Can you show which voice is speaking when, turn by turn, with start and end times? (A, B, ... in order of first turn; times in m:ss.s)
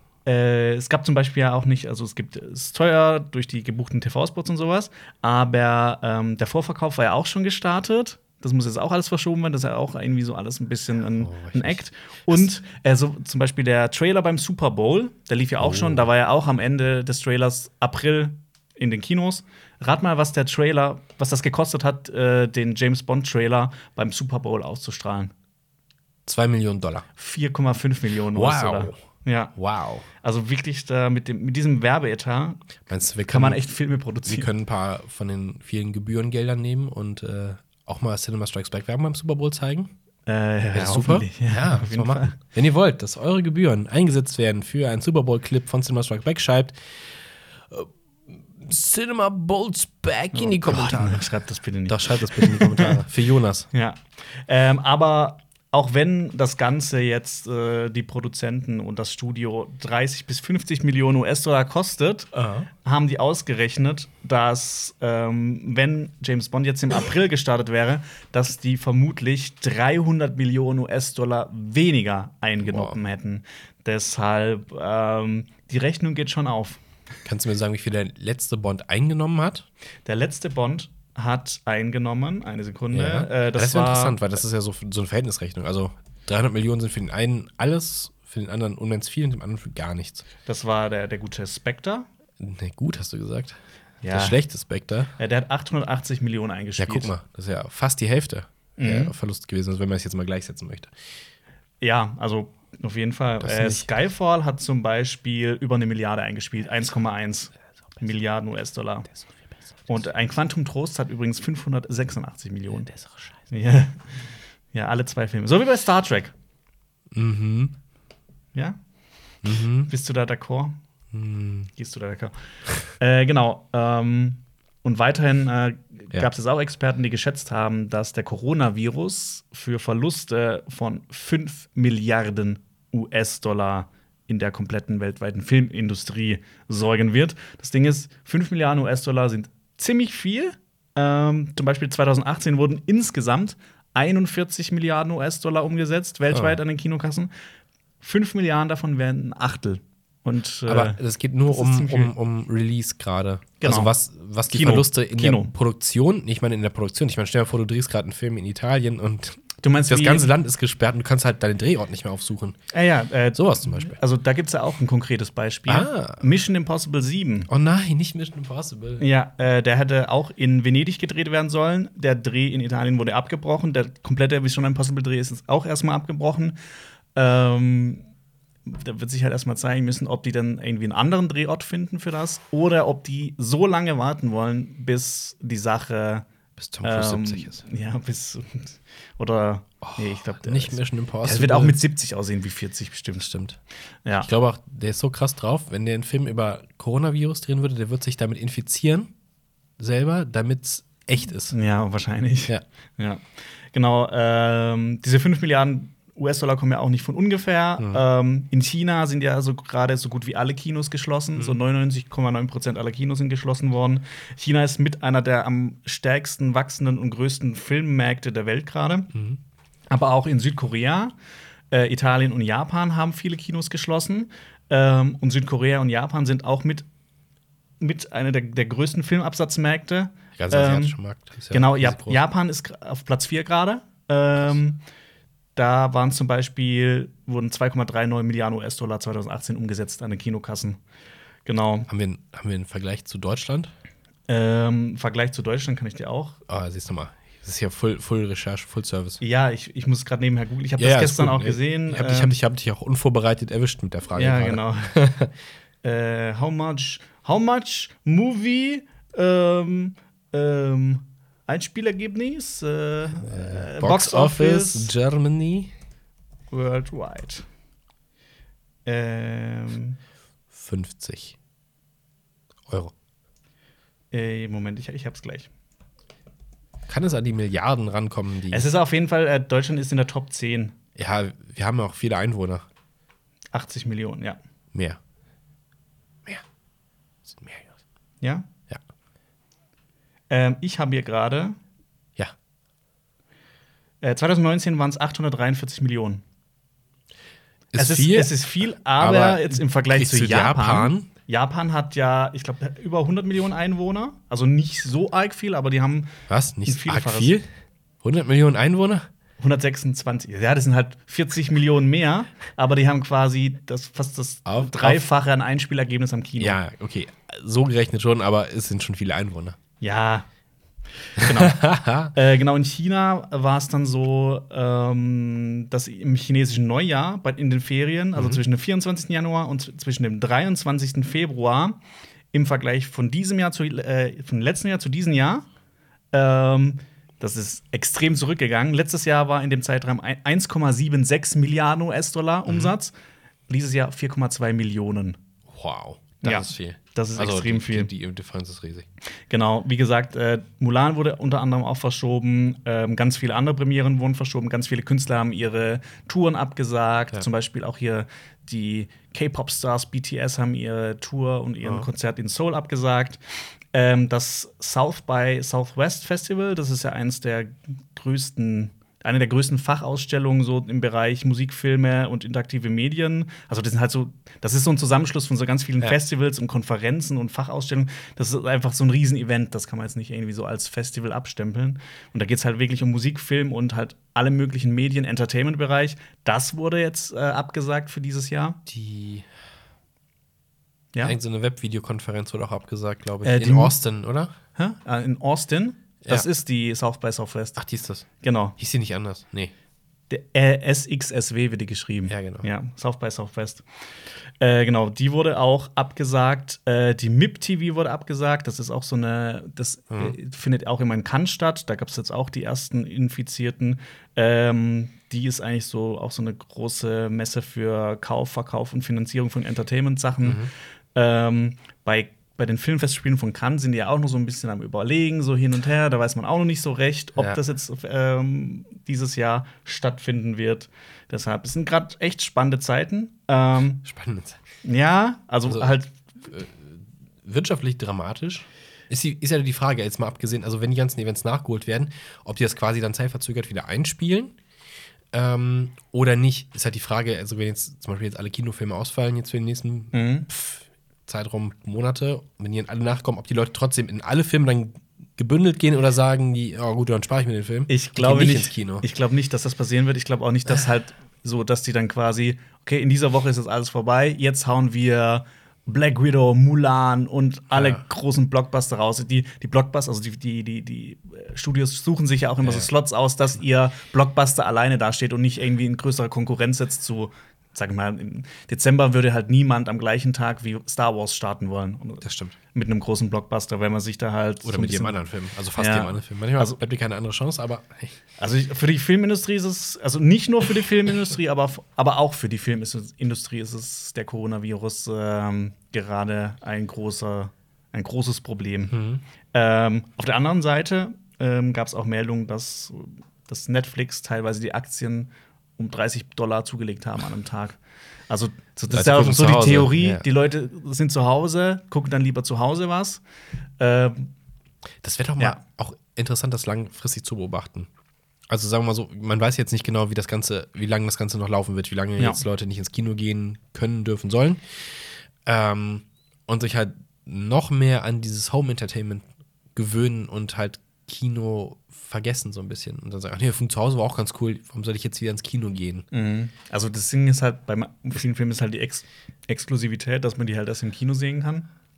0:00.2-0:25.3 A
0:11.1-0:12.5 B
0:15.6-0:16.0 B
0:26.3-0:27.1 B
0:27.2-0:34.5 A
0:28.3-0:29.0 B
0:29.5-0:30.1 B
0:32.9-0:39.9 B
0:40.2-0:42.3 A
0:40.7-0:47.9 B
0:48.6-0:53.7 B
0:50.3-0:53.0 A
0:53.7-1:16.8 A
1:02.3-1:02.7 B
1:12.6-1:12.9 B
1:17.2-1:19.6 B
1:20.0-1:24.1 A
1:22.9-1:30.2 B
1:30.4-1:32.1 A
1:32.4-1:35.1 B
1:34.0-1:34.4 A
1:35.2-1:37.1 A
1:36.8-1:41.2 B
1:38.8-1:39.1 A
1:41.8-1:49.1 A
1:43.4-1:43.9 B
1:49.8-1:56.3 A
1:52.9-1:53.3 B
1:57.1-1:57.7 B
1:58.5-1:58.8 A
1:59.4-1:59.9 B
1:59.8-2:00.8 A
2:01.1-2:01.7 B
2:01.7-2:27.3 A
2:26.3-2:26.6 B
2:28.0-2:32.1 A
2:30.7-2:42.6 B
2:33.6-2:33.9 A
2:34.5-2:35.5 A
2:39.6-2:40.3 A
2:42.7-2:47.5 A
2:43.3-2:44.0 B
2:45.7-2:46.2 B
2:47.5-2:49.0 B
2:49.0-2:56.5 A
2:57.1-2:58.1 A
2:58.6-3:06.3 A
3:06.6-3:07.6 B
3:06.8-3:13.3 A
3:09.8-3:11.8 B
3:13.2-3:13.6 B
3:14.2-3:19.1 B
3:19.8-3:21.6 B
3:21.5-3:39.1 A
3:39.1-3:39.4 B
3:39.9-3:41.1 A
3:41.7-3:46.8 A
3:47.8-3:51.0 A
3:50.4-3:52.2 B
3:51.5-3:54.8 A
3:55.6-4:00.8 A
4:01.4-4:01.9 A
4:01.9-4:03.7 B
4:04.3-4:06.4 A
4:06.5-4:09.2 B
4:09.2-4:12.4 A
4:10.8-4:15.3 B
4:14.1-4:14.9 A
4:15.8-4:24.9 A
4:23.2-4:25.7 B
4:26.5-4:27.5 A
4:28.8-4:30.0 A
4:30.5-4:31.4 B
4:34.1-4:35.5 A
4:36.9-4:38.7 B
4:38.5-4:40.7 A
4:41.0-4:42.6 B
4:43.5-4:44.4 A
4:47.2-4:47.7 B
4:48.2-4:48.4 A
4:50.3-4:51.6 A
4:54.0-4:56.2 A
4:57.7-5:01.1 B
4:57.8-5:06.1 A
5:06.3-5:07.4 B
5:06.6-5:07.3 A
5:08.0-5:09.1 B
5:09.4-5:16.6 A
5:14.4-5:15.0 B
5:16.4-5:19.6 B
5:19.8-5:20.3 A
5:21.2-5:31.8 A
5:21.2-5:22.1 B
5:32.3-5:35.4 A
5:36.1-5:42.9 A
5:42.5-5:42.7 B
5:43.5-5:45.2 A
5:45.5-5:48.9 B
5:46.2-5:47.9 A
5:49.3-6:28.6 A
6:28.7-6:29.2 B
6:31.0-6:34.3 B
6:33.2-6:33.8 A
6:34.5-6:37.6 A
6:37.6-6:39.5 B
6:38.2-6:38.5 A
6:40.1-6:43.7 A
6:42.1-6:42.5 B
6:44.4-7:13.8 A
6:49.9-6:50.2 B
7:00.2-7:00.5 B
7:13.8-7:14.4 B
7:14.6-7:15.9 A
7:15.4-7:24.4 B
7:25.1-7:38.8 B
7:29.9-7:30.3 A
7:37.7-8:05.0 A
7:47.5-7:47.8 B
7:52.4-7:52.7 B
8:02.0-8:02.4 B
8:04.4-8:08.0 B
8:05.6-8:06.6 A
8:08.2-8:18.7 A
8:18.7-8:19.0 B
8:19.3-8:33.0 A
8:28.7-8:30.0 B
8:33.6-8:34.1 A
8:34.8-8:37.7 B
8:38.3-8:55.9 B
8:55.9-9:01.5 A